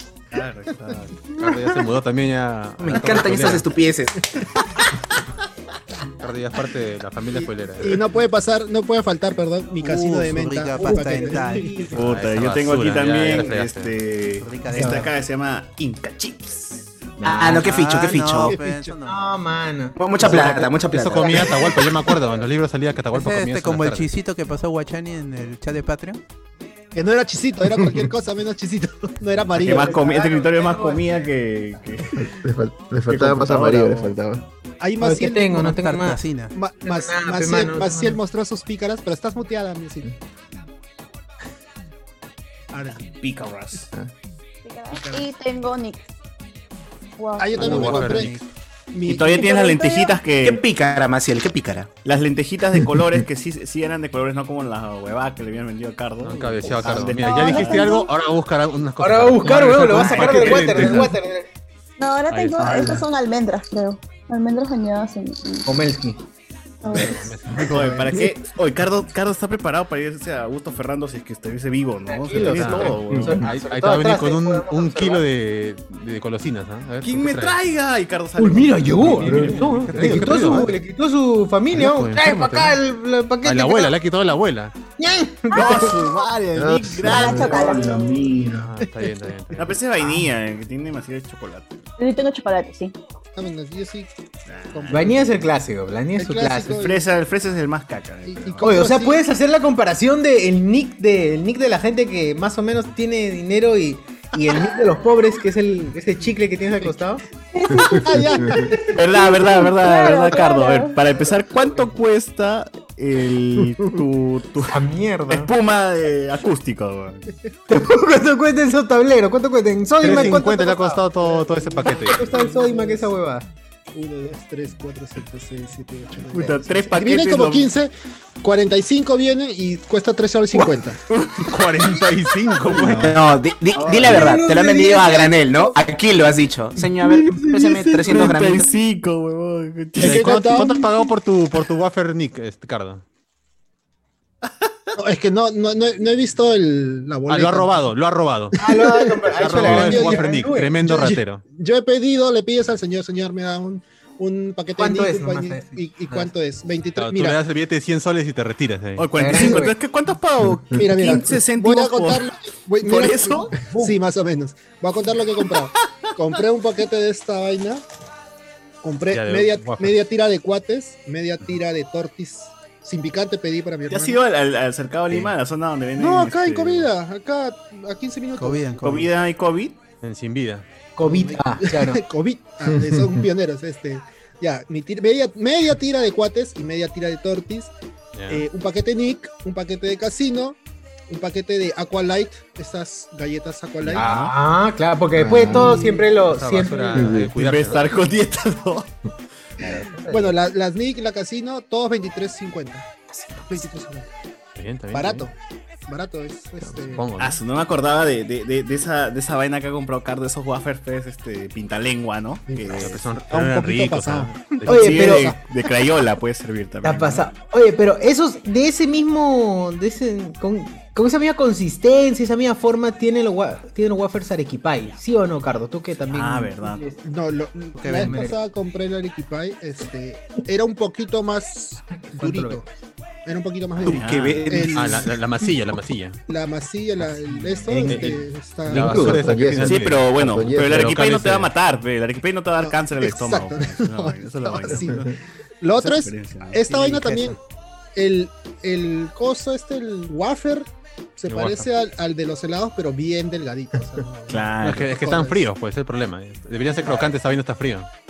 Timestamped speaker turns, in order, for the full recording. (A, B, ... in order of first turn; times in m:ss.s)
0:00.3-0:01.2 A
0:01.3-0:03.7 B
0:01.4-0:01.7 C
0:02.8-0:04.3 D
0:06.2-0:08.0 B
0:07.8-0:11.9 E
0:09.8-0:11.7 F
0:10.8-0:12.0 C
0:11.9-0:13.9 B
0:11.9-0:16.9 A
0:14.4-0:15.1 F
0:14.8-0:15.1 C
0:17.2-0:18.6 D
0:17.2-0:17.5 C
0:17.4-0:19.2 F
0:18.4-0:18.9 E
0:19.0-0:20.0 C
0:20.0-0:21.8 D
0:20.2-0:24.1 B
0:23.1-0:26.2 F
0:26.9-0:30.0 E
0:29.5-0:32.4 A
0:29.6-0:31.3 C
0:32.4-0:34.4 G
0:33.1-0:34.2 A
0:34.8-0:35.7 E
0:35.0-0:36.2 C
0:35.6-0:36.5 F
0:36.5-0:40.1 E
0:36.8-0:38.2 C
0:42.7-0:43.0 E
0:43.2-0:43.8 A
0:44.6-0:46.1 H
0:44.9-0:45.2 E
0:47.2-0:48.2 H
0:47.4-0:48.4 E
0:47.5-0:48.3 B
0:47.7-0:48.4 F
0:48.9-0:49.5 E
0:49.0-0:50.6 A
0:49.3-0:50.2 H
0:50.4-0:51.9 D
0:52.0-0:58.0 A
0:56.2-1:01.2 B
0:57.1-0:58.1 H
0:59.0-1:01.4 C
0:59.9-1:01.0 A
1:02.0-1:05.7 H
1:02.3-1:03.0 B
1:02.6-1:03.0 A
1:05.6-1:06.2 C
1:06.8-1:07.3 H
1:06.9-1:07.7 B
1:06.9-1:13.4 A
1:12.1-1:15.2 C
1:12.4-1:17.6 B
1:13.1-1:13.4 G
1:17.0-1:20.6 A
1:18.4-1:23.9 C
1:19.1-1:20.8 B
1:19.1-1:19.5 G
1:21.7-1:22.8 B
1:23.4-1:24.7 B
1:25.0-1:26.0 C
1:25.5-1:28.0 A
1:26.5-1:28.7 G
1:27.0-1:28.2 H
1:28.6-1:29.8 B
1:28.8-1:29.2 E
1:29.6-1:31.9 A
1:32.0-1:32.9 H
1:33.4-1:34.1 E
1:34.5-1:35.3 A
1:34.7-1:35.2 E
1:34.9-1:36.8 C
1:36.2-1:37.0 E
1:36.8-1:38.8 A
1:38.3-1:39.2 E
1:38.6-1:47.2 C
1:47.5-1:48.4 H
1:47.8-1:48.7 G
1:48.0-1:49.0 E
1:48.9-1:54.8 A
1:49.1-1:51.0 H
1:54.7-1:55.5 C
1:55.3-1:57.3 A
1:57.7-2:00.8 C
2:00.0-2:02.3 B
2:00.0-2:03.1 E
2:01.9-2:03.4 C
2:03.9-2:07.9 E
2:06.3-2:07.7 A
2:08.4-2:11.0 E
2:11.1-2:13.2 A
2:11.4-2:13.1 B
2:12.9-2:18.7 D
2:13.8-2:14.4 A
2:14.0-2:15.8 C
2:17.0-2:18.3 C
2:18.0-2:20.6 A
2:20.0-2:20.9 E
2:20.0-2:23.0 B
2:25.0-2:27.9 E
2:27.3-2:28.6 B
2:28.6-2:30.8 C
2:28.6-2:37.4 E
2:29.4-2:31.4 B
2:34.8-2:36.3 C
2:37.0-2:39.2 B
2:39.0-2:42.3 A
2:39.2-2:39.7 C
2:39.3-2:39.7 E
2:40.7-2:47.8 E
2:42.8-2:43.6 A
2:43.6-2:43.9 C
2:48.8-2:54.2 E
2:49.1-2:50.0 B
2:53.9-2:56.9 A
2:56.0-2:58.7 E
2:58.4-2:59.1 F
2:58.8-2:59.8 A
3:00.0-3:00.6 B
3:01.0-3:02.0 C
3:01.0-3:07.7 E
3:08.1-3:08.4 B
3:08.3-3:10.6 E
3:11.1-3:14.2 E
3:13.9-3:17.1 C
3:14.0-3:14.3 B
3:15.1-3:15.8 G
3:15.5-3:16.1 E
3:16.2-3:18.0 B
3:17.0-3:17.3 G
3:17.3-3:18.9 A
3:19.6-3:20.3 C
3:20.1-3:24.1 E
3:24.6-3:25.2 B
3:24.9-3:25.3 E
3:25.9-3:27.1 E
3:26.9-3:27.4 B
3:27.2-3:33.0 A
3:32.5-3:35.4 E
3:32.7-3:35.0 B
3:34.6-3:35.3 C
3:34.7-3:37.3 A
3:36.8-3:47.0 C
3:46.1-3:46.8 A
3:47.0-3:52.6 E
3:47.8-3:48.3 F
3:47.9-3:48.3 C
3:53.2-3:55.5 E
3:53.8-3:54.7 A
3:53.9-3:54.7 D
3:54.7-3:56.2 B
3:56.3-3:59.4 E
3:57.7-3:58.1 C
3:57.8-4:01.5 B
3:58.7-4:01.0 G
3:59.6-4:05.1 A
4:02.6-4:05.1 E
4:05.6-4:07.4 E
4:05.7-4:07.2 A
4:07.9-4:15.4 E
4:11.3-4:11.7 B
4:14.3-4:14.9 A
4:14.6-4:17.9 B